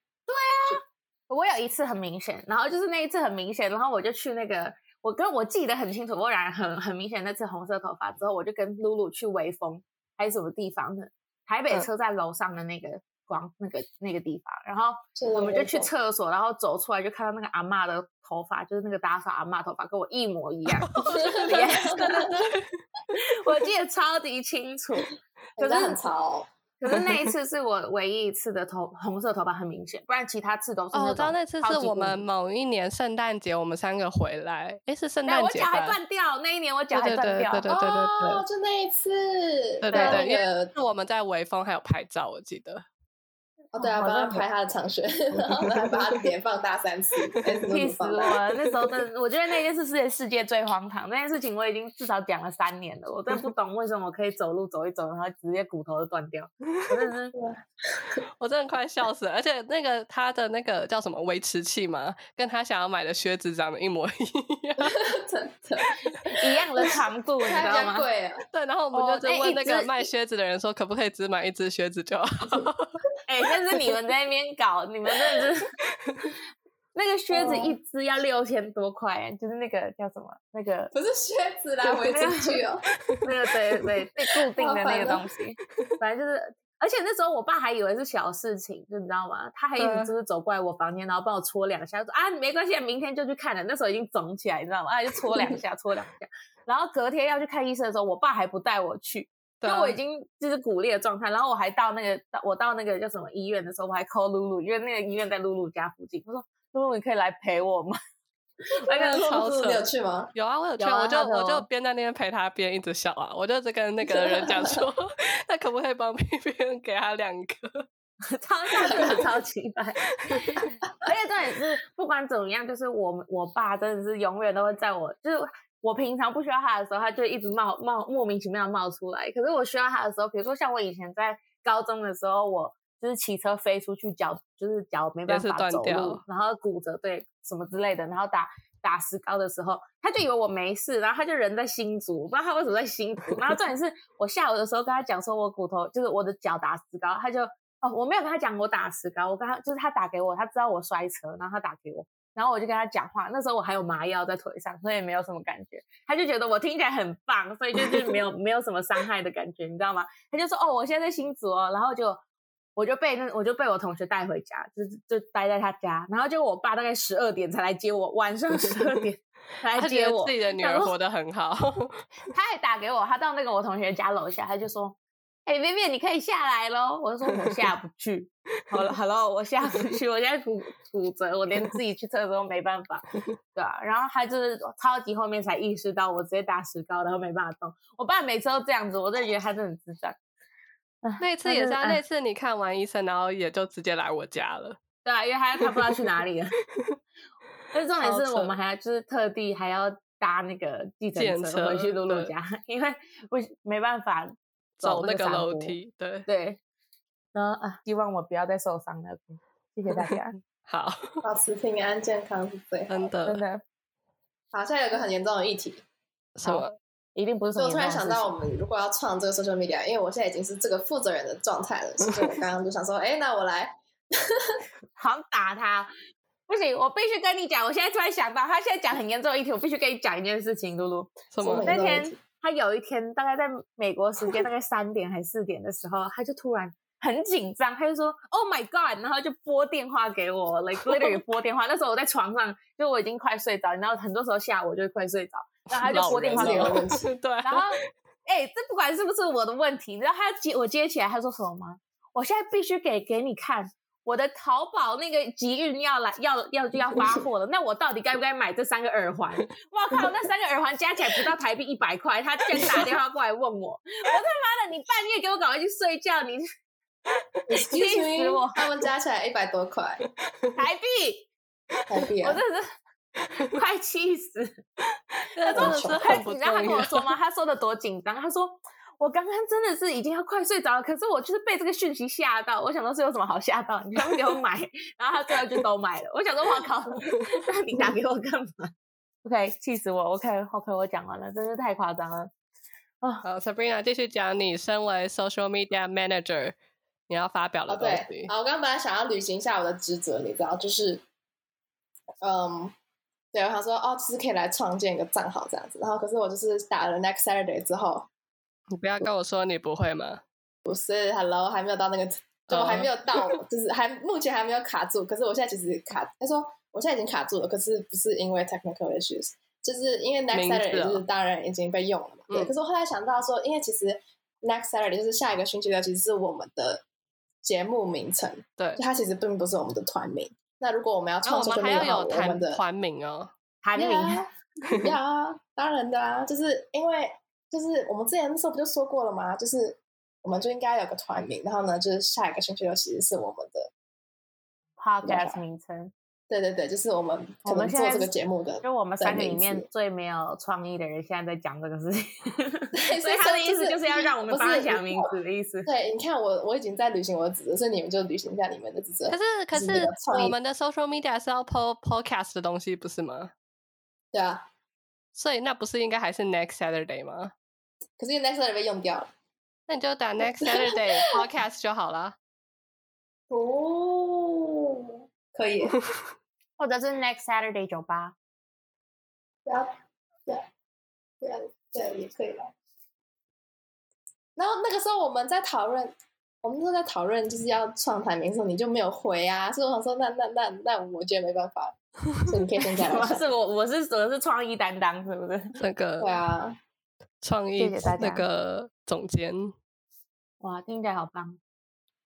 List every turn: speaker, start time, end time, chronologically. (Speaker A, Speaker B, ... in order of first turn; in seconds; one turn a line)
Speaker A: 0.3-22.4
Speaker B: 15.2-15.9
Speaker C: 20.7-22.6
Speaker B: 21.2-22.4
Speaker A: 23.1-26.1
Speaker B: 25.6-26.5
Speaker A: 26.8-32.3
Speaker C: 30.9-36.0
Speaker A: 35.3-37.6
Speaker C: 36.9-38.4
Speaker B: 37.7-40.7
Speaker C: 39.8-42.9
Speaker A: 39.9-40.3
Speaker B: 43.7-48.4
Speaker A: 43.8-44.5
Speaker A: 47.7-57.4
Speaker B: 57.3-58.2
Speaker C: 58.4-65.1
Speaker B: 64.8-66.3
Speaker A: 66.4-68.1
Speaker B: 67.4-68.4
Speaker C: 68.5-73.0
Speaker A: 68.9-70.1
Speaker A: 73.3-75.7
Speaker C: 76.0-76.3
Speaker A: 77.0-80.9
Speaker B: 77.3-77.8
Speaker B: 80.9-82.8
Speaker A: 82.1-82.7
Speaker A: 83.2-108.0
Speaker B: 84.6-85.2
Speaker C: 89.8-90.2
Speaker C: 99.6-100.0
Speaker A: 108.8-109.7
Speaker B: 108.9-110.3
Speaker C: 109.1-117.9
Speaker A: 110.8-111.7
Speaker B: 114.0-114.8
Speaker A: 118.3-120.0
Speaker C: 118.8-119.2
Speaker B: 118.8-119.2
Speaker C: 120.2-120.6
Speaker A: 121.0-162.2
Speaker C: 135.3-136.2
Speaker A: 162.8-170.9
Speaker C: 169.7-172.0
Speaker A: 172.3-190.2
Speaker A: 191.0-192.0
Speaker C: 191.2-194.8
Speaker A: 195.1-196.6
Speaker C: 195.6-196.1
Speaker A: 197.7-206.6
Speaker C: 198.0-198.6
Speaker C: 201.2-202.3
Speaker C: 204.8-206.3
Speaker A: 207.3-210.3
Speaker C: 210.6-211.2
Speaker B: 211.2-213.1
Speaker C: 212.9-213.4
Speaker A: 213.2-213.6
Speaker B: 214.5-215.8
Speaker C: 216.4-216.8
Speaker A: 216.4-218.4
Speaker B: 217.6-223.7
Speaker A: 225.0-225.9
Speaker A: 226.5-246.8
Speaker C: 231.3-231.7
Speaker B: 231.4-232.2
Speaker C: 245.7-247.7
Speaker B: 245.9-247.1
Speaker A: 247.4-266.4
Speaker B: 267.5-270.0
Speaker A: 267.6-268.6
Speaker C: 270.3-270.5
Speaker A: 270.6-271.3
Speaker B: 271.9-272.4
Speaker A: 272.2-272.6
Speaker A: 273.4-274.6
Speaker C: 275.3-277.1
Speaker A: 275.5-288.7
Speaker B: 275.5-276.3
Speaker A: 289.2-292.3
Speaker C: 293.2-296.6
Speaker C: 297.1-298.3
Speaker B: 297.7-301.0
Speaker B: 302.2-302.7
Speaker B: 303.3-308.1
Speaker C: 308.8-310.2
Speaker B: 310.6-326.8
Speaker C: 312.5-313.4
Speaker C: 320.3-321.1
Speaker B: 327.4-332.6
Speaker C: 328.6-328.8
Speaker C: 331.2-333.3
Speaker A: 333.6-334.2
Speaker B: 333.8-343.7
Speaker A: 344.8-345.9
Speaker B: 345.0-345.4
Speaker B: 346.3-349.7
Speaker A: 347.4-355.7
Speaker B: 352.7-355.1
Speaker B: 355.7-360.4
Speaker C: 359.1-363.3
Speaker B: 364.1-364.4
Speaker C: 365.1-367.3
Speaker B: 368.0-369.1
Speaker C: 369.7-372.2
Speaker B: 370.4-370.8
Speaker B: 373.3-375.8
Speaker A: 376.6-378.1
Speaker B: 381.2-382.5
Speaker B: 384.4-393.3
Speaker A: 392.8-395.5
Speaker C: 395.6-396.2
Speaker B: 396.0-396.6
Speaker C: 397.2-399.6
Speaker A: 397.5-398.3
Speaker A: 400.4-401.4